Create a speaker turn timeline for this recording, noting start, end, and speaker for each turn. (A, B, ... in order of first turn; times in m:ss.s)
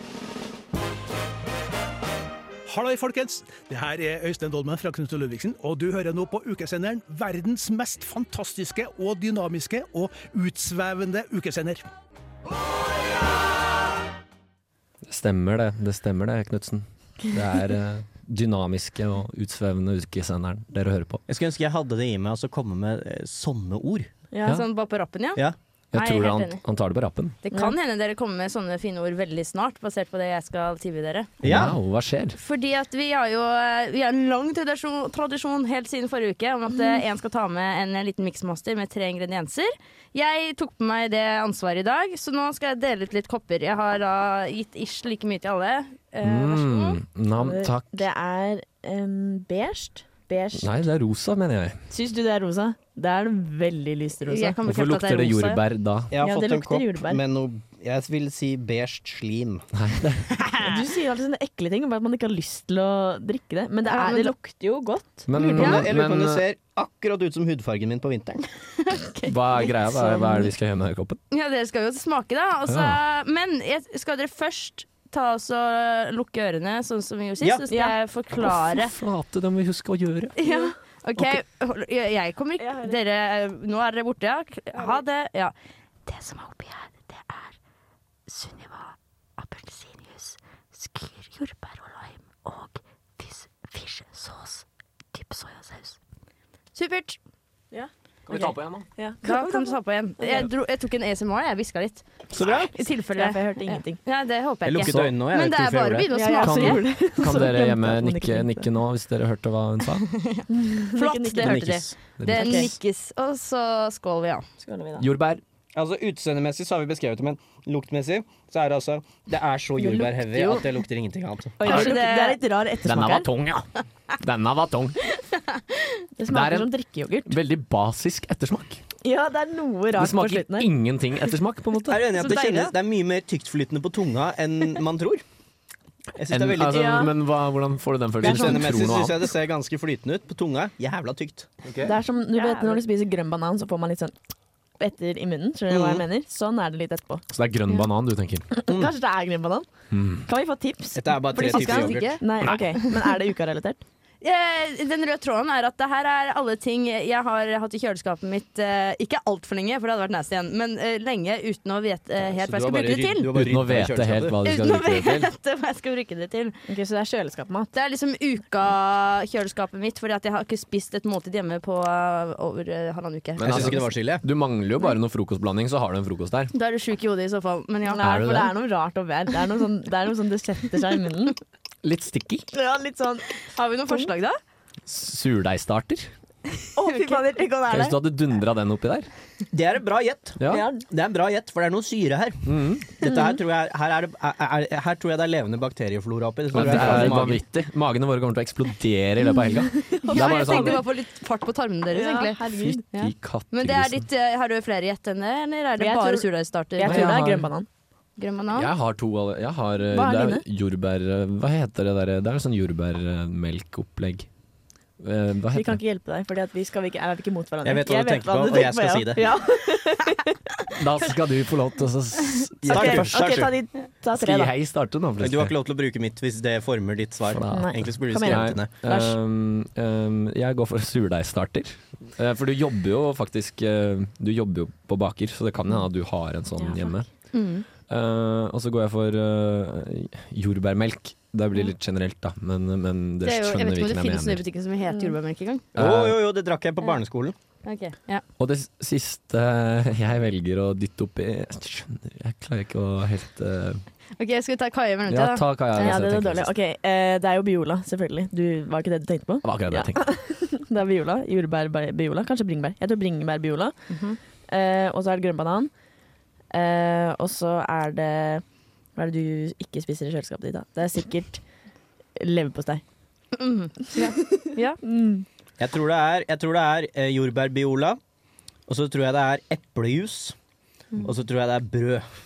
0:02.7-0:11.8 A
0:15.0-0:21.2 B
0:21.3-0:24.1 C
0:24.3-0:24.6 D
0:24.5-0:25.4 E
0:25.9-0:27.4 B
0:25.9-0:26.6 E
0:27.4-0:31.3 E
0:31.4-0:31.7 C
0:31.4-0:32.4 B
0:32.4-0:47.0 E
0:46.2-0:48.1 B
0:47.4-0:50.7 D
0:50.5-0:51.8 B
0:51.9-0:54.6 D
0:54.2-0:55.6 E
0:54.6-0:56.1 B
0:56.1-0:59.6 C
0:56.2-0:57.2 D
0:59.7-1:00.2 B
1:00.6-1:05.8 D
1:03.8-1:04.3 E
1:05.3-1:06.4 B
1:05.5-1:08.4 C
1:05.6-1:05.8 E
1:08.9-1:09.3 E
1:09.3-1:11.2 B
1:10.0-1:10.3 D
1:11.3-1:18.9 E
1:12.7-1:13.0 B
1:17.4-1:17.7 C
1:17.7-1:18.0 D
1:18.6-1:20.3 B
1:20.4-1:25.5 E
1:20.4-1:20.7 D
1:22.6-1:23.0 D
1:24.7-1:25.0 D
1:26.0-1:27.6 E
1:28.3-1:36.0 E
1:36.7-1:37.2 E
1:37.7-1:40.5 D
1:38.3-1:38.9 B
1:39.2-1:46.8 E
1:42.3-1:42.7 C
1:43.1-1:44.0 D
1:44.6-1:46.1 C
1:46.1-1:48.7 D
1:46.4-1:50.0 B
1:50.2-1:54.4 E
1:50.5-1:51.6 D
1:51.4-1:51.9 C
1:52.2-1:52.7 B
1:52.3-1:52.7 D
1:54.6-1:55.1 D
1:55.0-1:55.4 B
1:55.7-2:01.6 C
1:59.8-2:00.6 D
2:01.6-2:03.3 D
2:01.6-2:02.4 E
2:02.8-2:03.6 B
2:04.2-2:05.0 B
2:06.2-2:07.4 D
2:06.3-2:06.7 B
2:07.2-2:08.8 B
2:09.0-2:10.7 D
2:09.9-2:12.1 B
2:11.9-2:15.2 C
2:12.1-2:12.7 E
2:16.2-2:17.0 C
2:16.3-2:19.3 B
2:16.6-2:17.1 D
2:18.2-2:21.5 C
2:21.8-2:24.1 D
2:22.4-2:22.8 E
2:24.8-2:27.2 D
2:25.7-2:26.0 C
2:27.3-2:28.5 B
2:28.6-2:29.7 D
2:29.9-2:30.2 B
2:30.2-2:33.8 D
2:30.9-2:32.2 C
2:31.3-2:32.6 E
2:34.2-2:43.3 E
2:42.2-2:44.4 C
2:43.3-2:45.3 B
2:44.4-2:46.6 E
2:46.7-2:47.7 D
2:47.7-2:53.9 E
2:53.4-2:56.5 B
2:53.4-2:54.2 C
2:56.5-2:58.2 E
2:57.9-3:01.4 D
2:58.0-2:58.5 B
3:01.8-3:02.5 B
3:02.5-3:04.1 D
3:03.5-3:04.4 E
3:04.8-3:06.1 B
3:06.8-3:08.0 D
3:06.9-3:07.4 E
3:07.7-3:09.1 B
3:09.5-3:17.4 C
3:10.4-3:10.7 B
3:10.5-3:10.8 D
3:12.4-3:12.8 B
3:13.0-3:13.4 D
3:16.5-3:20.8 B
3:19.9-3:20.8 D
3:20.1-3:22.4 E
3:21.9-3:22.8 D
3:22.4-3:24.1 B
3:22.9-3:27.2 E
3:25.8-3:27.7 D
3:26.8-3:27.5 B
3:28.2-3:28.7 E
3:28.5-3:34.3 B
3:29.9-3:30.4 D
3:35.0-3:35.8 B
3:35.5-3:40.3 D
3:37.6-3:39.2 C
3:40.8-3:43.5 B
3:42.6-3:43.5 C
3:42.7-3:44.5 D
3:44.2-3:45.5 B
3:45.2-3:48.8 C
3:47.3-3:57.1 B
3:47.5-3:49.1 D
3:56.6-3:56.9 D
3:57.3-3:57.6 E
3:57.9-4:04.4 B
4:03.2-4:05.7 E
4:05.7-4:07.3 C
4:05.8-4:06.2 B
4:07.6-4:08.2 E
4:08.4-4:13.8 B
4:14.2-4:16.0 E
4:15.1-4:16.5 B
4:15.8-4:23.8 D
4:19.4-4:20.0 B
4:23.9-4:24.2 E
4:24.5-4:25.7 D
4:26.5-4:28.4 D
4:29.0-4:31.4 D
4:32.2-4:32.8 D
4:33.4-4:34.8 E
4:34.0-4:35.2 D
4:35.6-4:38.0 C
4:38.7-4:40.3 C
4:41.0-4:42.0 C